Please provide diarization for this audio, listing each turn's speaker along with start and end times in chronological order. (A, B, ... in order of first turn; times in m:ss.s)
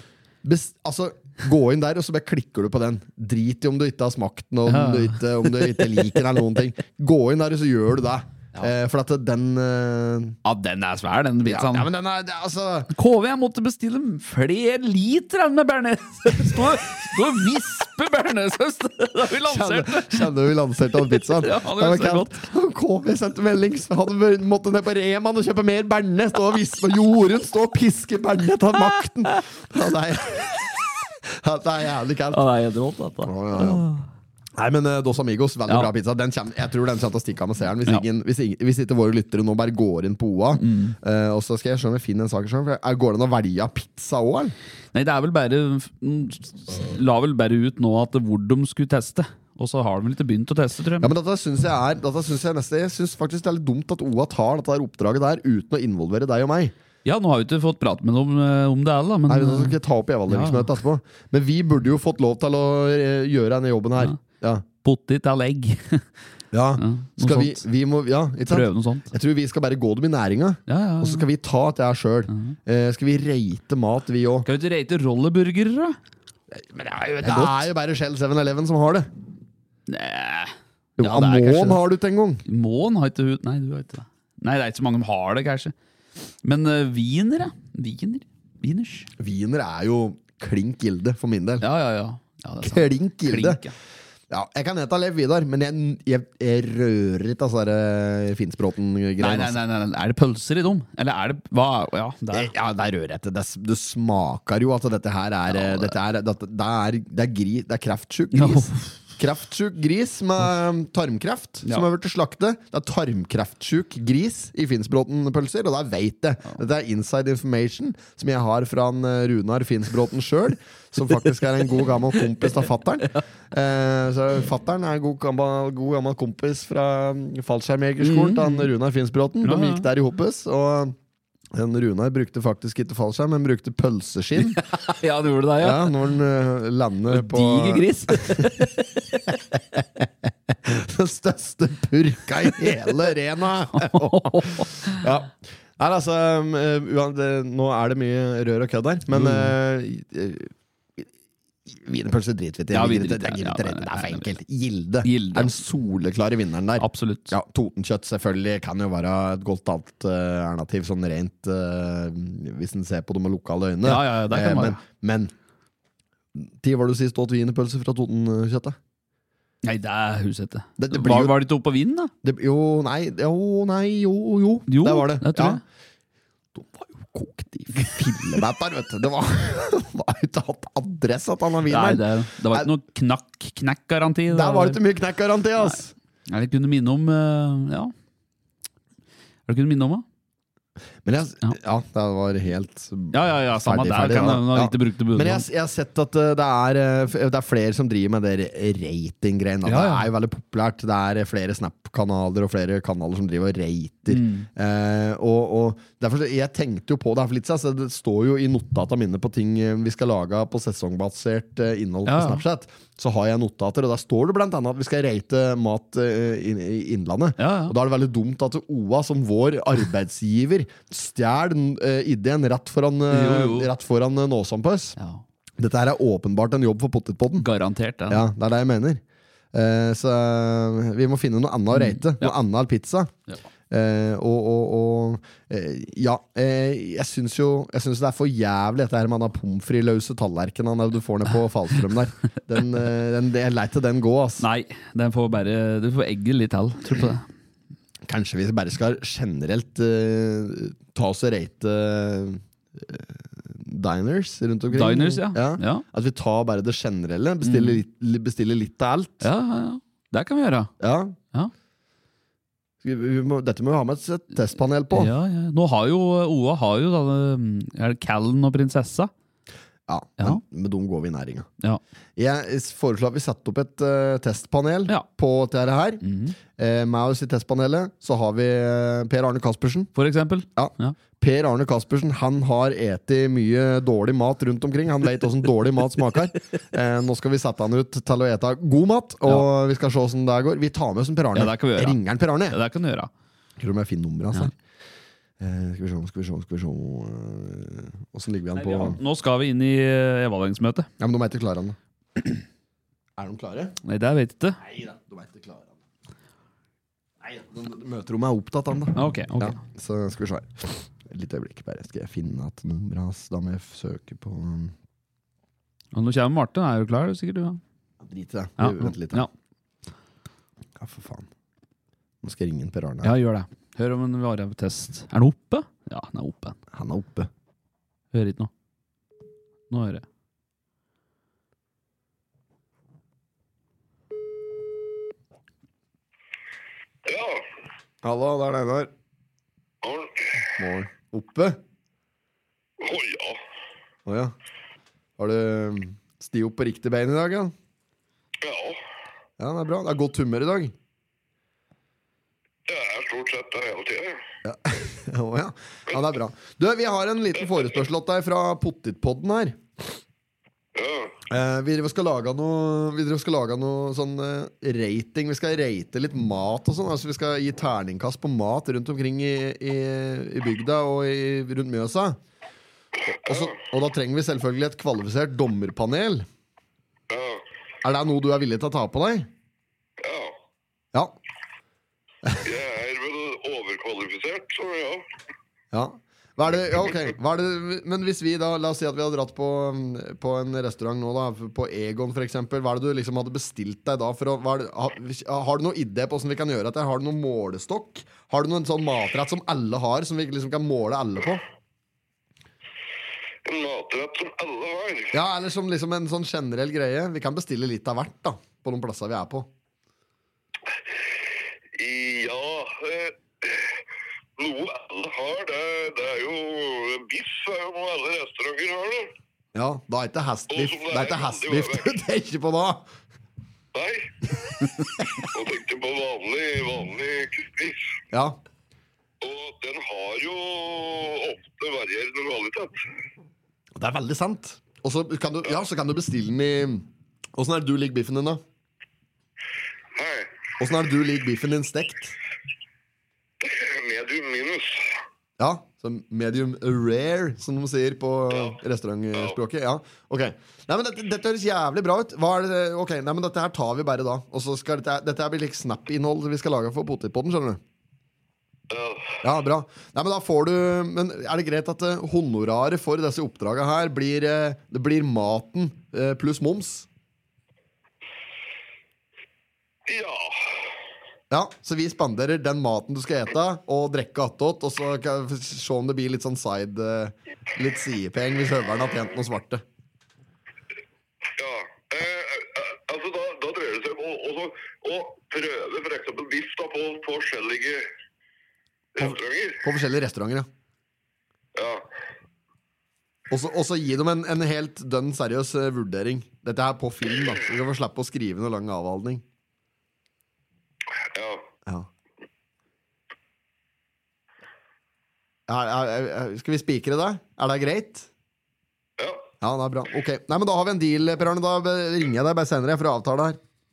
0:00.4-0:10.4 A
0:04.7-0:06.2 B
0:10.4-0:11.9 B
0:11.4-0:12.9 A
0:12.9-0:20.3 B
0:19.4-0:32.4 A
0:21.1-0:22.4 B
0:28.7-0:29.3 B
0:32.3-0:34.1 B
0:33.2-0:33.9 A
0:34.6-0:44.5 A
0:40.6-0:41.0 B
0:44.9-0:51.1 B
0:51.0-0:56.7 A
0:57.0-1:00.8 B
0:59.3-1:04.6 A
1:04.8-1:06.1 B
1:06.5-1:14.5 A
1:06.8-1:07.6 B
1:08.5-1:09.1 B
1:10.7-1:11.3 B
1:12.3-1:12.6 B
1:14.4-1:16.0 B
1:16.8-1:17.7 B
1:17.2-1:19.1 A
1:19.9-1:21.8 B
1:21.0-1:22.4 A
1:22.5-1:25.7 B
1:26.4-1:29.1 B
1:29.2-1:31.7 A
1:31.6-1:33.8 B
1:32.6-1:33.6 A
1:34.3-1:39.6 A
1:39.2-1:42.5 B
1:42.3-2:11.0 A
1:45.5-1:46.0 B
1:48.3-1:48.9 B
2:08.0-2:08.7 B
2:09.4-2:09.9 B
2:11.5-2:14.6 A
2:14.4-2:16.0 B
2:15.6-2:18.7 A
2:17.1-2:19.8 B
2:20.6-2:31.1 A
2:22.4-2:23.0 B
2:23.7-2:25.0 B
2:29.1-2:29.5 B
2:31.7-2:45.3 A
2:32.7-2:34.3 B
2:35.0-2:35.6 B
2:36.8-2:37.3 B
2:43.8-2:44.8 B
2:46.4-2:48.8 A
2:49.6-2:52.1 B
2:50.8-2:51.4 A
2:52.2-2:55.6 A
2:54.7-2:55.6 B
2:56.5-3:02.7 A
3:01.7-3:04.8 B
3:04.3-3:05.9 A
3:06.3-3:07.9 B
3:09.5-3:10.0 B
3:11.0-3:45.0 A
3:13.1-3:15.4 B
3:19.6-3:20.0 B
3:24.1-3:24.5 B
3:32.1-3:32.4 B
3:37.4-3:37.8 B
3:43.1-3:43.7 B
3:45.0-3:45.2 B
3:45.6-3:47.5 A
3:47.4-3:48.2 B
3:48.1-3:49.0 A
3:49.5-3:53.1 A
3:51.7-3:52.4 B
3:53.7-4:04.5 A
4:04.4-4:07.3 B
4:08.1-4:19.3 A
4:14.7-4:15.8 B
4:17.4-4:17.8 B
4:19.2-4:20.7 B
4:20.8-4:21.2 A
4:22.8-4:25.1 A
4:24.9-4:29.1 B
4:29.9-4:31.5 A
4:32.2-4:36.0 A
4:36.0-4:36.4 B
4:36.6-4:39.9 A
4:40.0-4:41.0 B
4:40.6-4:52.6 A
4:51.4-4:53.1 B
4:53.6-4:54.6 A
4:55.4-4:59.0 A
4:58.6-5:00.9 B
5:01.0-5:01.8 A
5:03.2-5:03.8 A
5:03.8-5:04.6 B
5:04.6-5:05.8 A
5:07.2-5:14.7 A
5:09.0-5:09.6 B
5:15.9-5:17.6 B
5:18.0-5:19.3 A
5:18.6-5:19.3 B
5:20.8-5:21.3 A
5:22.2-5:23.1 A
5:23.0-5:26.6 B
5:26.7-5:27.3 A
5:28.1-5:28.5 B
5:29.7-5:30.0 B
5:37.0-5:37.4 C
5:38.0-5:38.9 A
5:39.8-5:40.4 C
5:40.6-5:41.6 A
5:42.8-5:43.4 C
5:44.1-5:44.3 A
5:45.2-5:47.5 A
5:48.4-5:48.8 C
5:49.4-5:50.7 A
5:52.7-5:54.2 C
5:54.4-5:59.6 A
5:57.4-5:57.7 C
6:00.8-6:01.2 C
6:01.3-6:12.2 A
6:13.1-6:16.3 A
6:13.2-6:13.6 C
6:17.1-6:17.4 C
6:17.8-6:19.3 A
6:20.0-6:20.4 C
6:22.4-6:25.0 C
6:25.7-6:41.4 A
6:43.4-6:45.2 C
6:45.1-6:49.5 A
6:51.8-6:53.8 C
6:54.4-6:59.1 C
6:59.6-7:02.9 A
7:00.5-7:02.0 C
7:03.7-7:04.4 C
7:05.3-7:07.9 C
7:09.2-7:12.8 C
7:13.8-7:18.4 A
7:19.9-7:20.3 C
7:20.6-7:22.2 A
7:23.4-7:24.9 C
7:25.4-7:37.6 A
7:28.3-7:28.6 C
7:38.7-7:39.2 C
7:39.2-7:46.9 A
7:49.9-7:50.7 C
7:51.3-7:59.6 A
8:01.4-8:07.9 C
8:09.0-8:09.6 C
8:09.0-8:10.5 A
8:11.6-8:11.9 C
8:13.3-8:19.2 A
8:21.0-8:21.5 C
8:25.5-8:28.1 A
8:29.0-8:29.3 C
8:29.4-8:33.4 A